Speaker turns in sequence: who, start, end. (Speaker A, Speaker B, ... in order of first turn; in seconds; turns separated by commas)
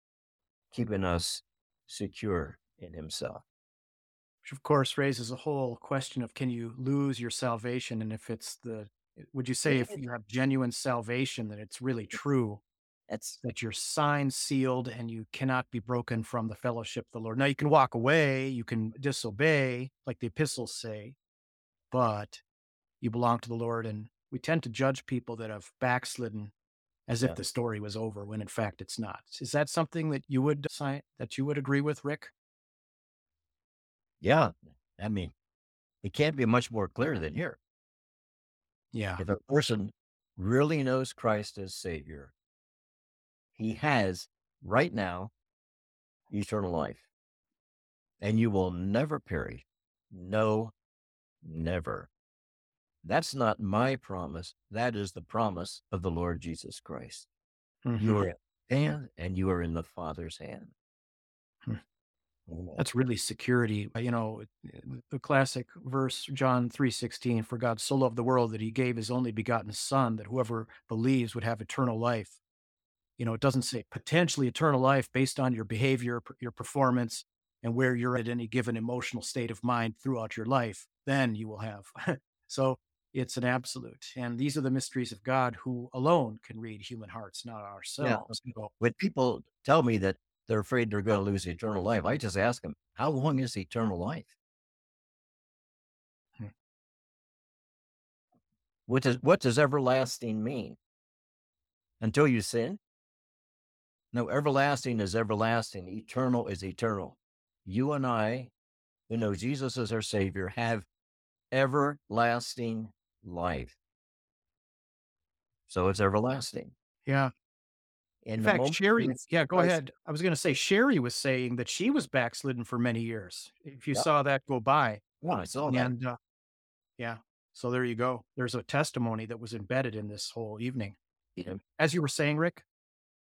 Speaker A: 0.7-3.4, Speaker B: 4.4-12.6, Speaker A: 9.7-10.0, Speaker A: 13.1-13.4, Speaker B: 13.4-21.1, Speaker B: 21.9-22.4, Speaker B: 23.0-26.5, Speaker B: 27.1-32.3, Speaker A: 34.2-35.3, Speaker A: 36.0-37.6, Speaker B: 38.9-39.2, Speaker A: 39.2-42.3, Speaker A: 43.5-45.3, Speaker A: 46.3-47.0, Speaker A: 48.2-50.7, Speaker A: 51.4-52.1, Speaker A: 53.0-57.3, Speaker B: 57.8-58.2, Speaker A: 58.0-60.7, Speaker A: 62.5-62.8, Speaker B: 62.8-72.4, Speaker B: 73.2-88.7, Speaker A: 88.0-94.3, Speaker A: 98.9-100.8, Speaker A: 102.0-102.8, Speaker A: 104.1-108.5, Speaker A: 109.1-110.9, Speaker A: 111.5-113.8, Speaker A: 115.7-116.7, Speaker B: 117.0-117.3, Speaker A: 118.2-119.8, Speaker B: 118.4-125.0, Speaker A: 125.2-125.9, Speaker B: 125.7-126.2, Speaker B: 127.0-131.0, Speaker B: 131.7-132.6